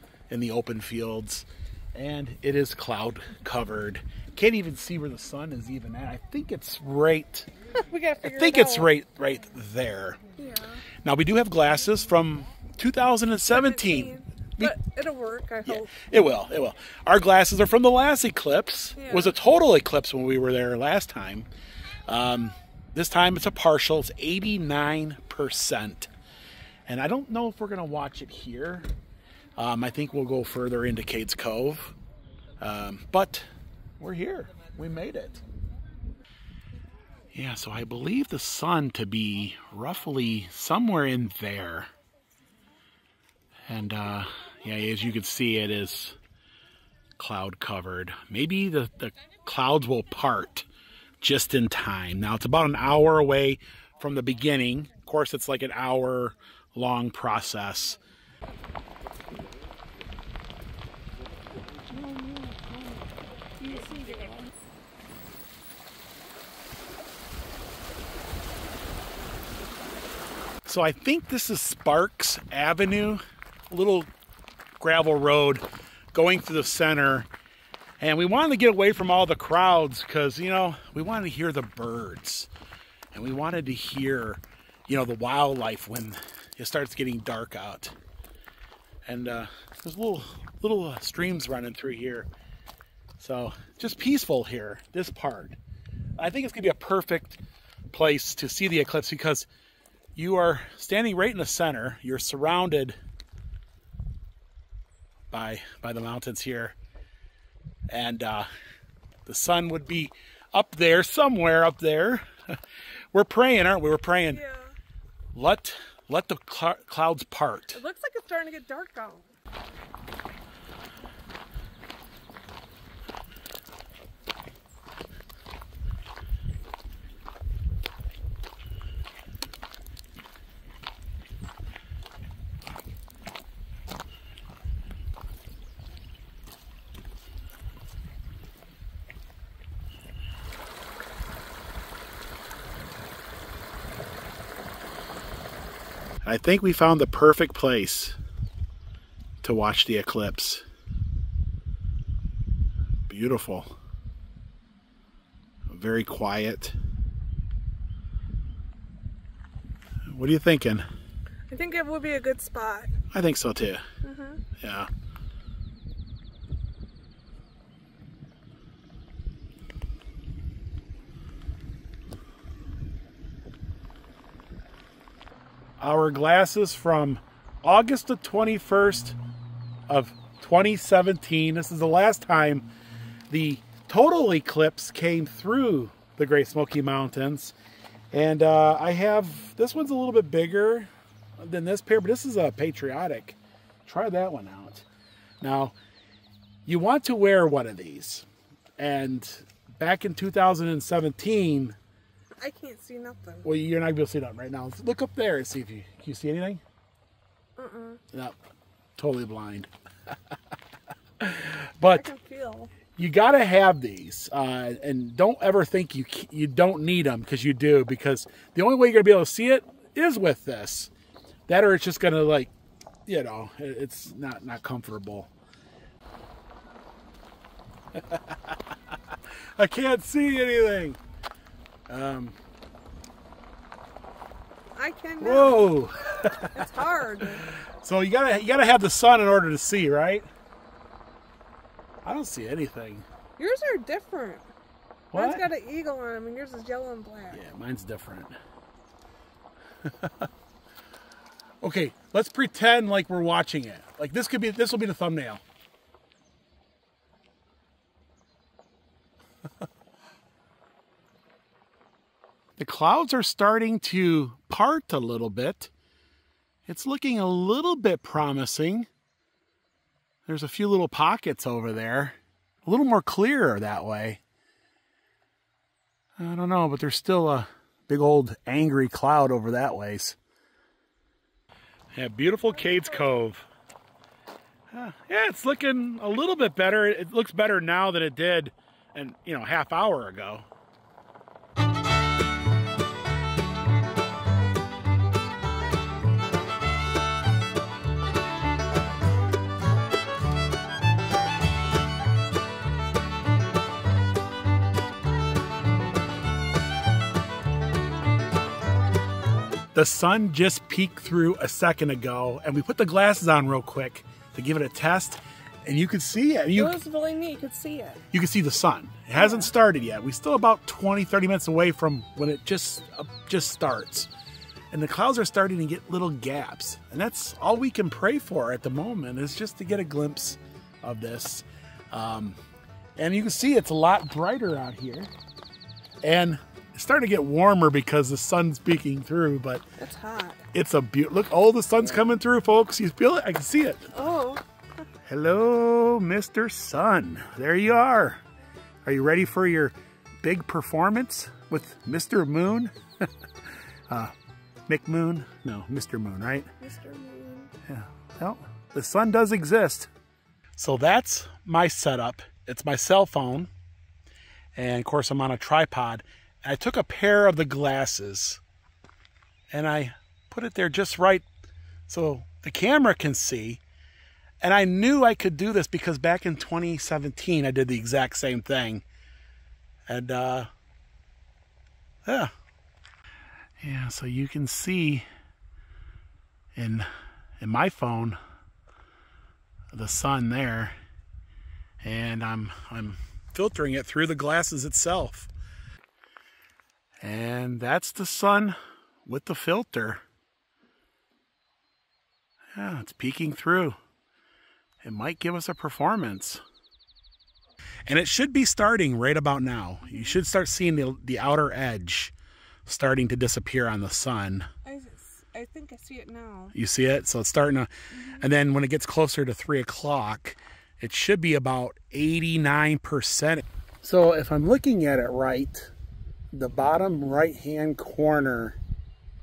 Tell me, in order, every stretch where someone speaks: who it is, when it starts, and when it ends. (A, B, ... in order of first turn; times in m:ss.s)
0:00.3-0:07.5 A
0:07.8-0:08.9 B
0:08.2-0:10.2 A
0:10.4-0:10.8 B
0:11.0-0:14.7 A
0:13.5-0:15.9 B
0:15.6-0:21.5 A
0:19.0-0:19.3 B
0:22.0-0:26.1 A
0:26.9-0:28.9 A
0:29.6-0:32.0 A
0:32.6-0:33.5 A
0:34.0-0:35.4 A
0:37.3-0:41.9 A
0:43.7-0:46.2 A
0:47.2-0:50.7 A
0:51.2-0:58.0 A
1:03.7-1:04.3 B
1:10.6-1:14.1 A
1:14.8-1:17.3 A
1:18.0-1:22.5 A
1:23.1-1:28.0 A
1:29.0-1:32.3 A
1:33.2-1:35.6 A
1:36.2-1:37.4 A
1:37.9-1:39.5 A
1:40.2-1:43.0 A
1:45.3-1:46.8 A
1:47.9-1:48.5 A
1:49.2-1:52.6 A
1:53.1-1:54.4 A
1:54.3-1:54.7 B
1:55.3-1:57.8 A
1:57.7-1:59.3 B
2:26.2-2:28.2 A
2:29.4-2:30.6 A
2:33.1-2:33.7 A
2:35.7-2:36.8 A
2:40.1-2:40.8 A
2:41.5-2:42.9 B
2:43.1-2:43.8 A
2:44.0-2:44.4 B
2:44.6-2:44.9 A
2:55.8-2:59.2 A
2:59.9-3:02.7 A
3:03.3-3:07.5 A
3:08.1-3:14.8 A
3:15.4-3:15.8 A
3:16.6-3:18.3 A
3:18.8-3:21.8 A
3:22.4-3:23.4 B
3:23.4-3:26.6 A
3:27.6-3:28.0 B
3:29.0-3:29.7 A
3:31.2-3:32.1 A
3:31.9-3:32.7 B
3:33.0-3:40.9 A
3:41.5-3:42.5 A
3:43.0-3:45.3 A
3:47.9-3:48.5 A
3:49.6-3:51.0 A
3:51.9-3:52.4 A
3:54.8-3:55.7 B
3:55.2-3:56.7 A
3:56.5-3:57.5 B
3:57.5-4:00.3 A
4:02.0-4:03.1 A
4:03.4-4:04.5 B
4:05.1-4:05.4 A
4:05.1-4:07.4 B
4:07.3-4:08.3 A
4:09.8-4:10.2 A
4:11.6-4:15.4 A
4:22.6-4:25.7 A
4:26.6-4:28.9 A
4:30.2-4:34.2 A
4:36.2-4:40.2 A
4:41.9-4:43.5 A
4:42.5-4:43.1 B
4:44.7-4:50.4 A
5:09.7-5:16.8 A
5:16.6-5:18.0 B
5:18.1-5:24.1 A
5:19.2-5:19.5 B
5:24.7-5:32.4 A
5:33.0-5:35.1 A
5:36.0-5:39.6 A
5:39.8-5:40.4 B
5:40.5-5:43.9 A
5:43.9-5:44.4 B
5:45.0-5:48.2 A
5:48.8-5:52.7 A
5:53.9-5:54.1 A
5:54.7-5:56.5 A
5:56.6-5:57.5 B
5:57.6-5:59.9 A
6:00.6-6:03.5 A
6:04.5-6:08.4 A
6:09.5-6:11.2 A
6:11.9-6:13.6 A
6:14.4-6:18.8 A
6:19.9-6:20.5 A
6:22.0-6:22.3 A
6:23.6-6:25.0 A
6:26.5-6:26.9 A
6:27.4-6:28.2 A
6:29.7-6:30.7 A
6:31.8-6:35.3 A
6:37.0-6:40.0 A
6:42.5-6:43.8 A
6:44.8-6:46.4 A
6:47.9-6:52.1 A
6:49.9-6:50.2 B
6:52.6-6:54.5 A
6:54.6-6:56.5 B
6:56.5-7:05.7 A
6:58.0-6:58.2 B
7:06.3-7:08.6 A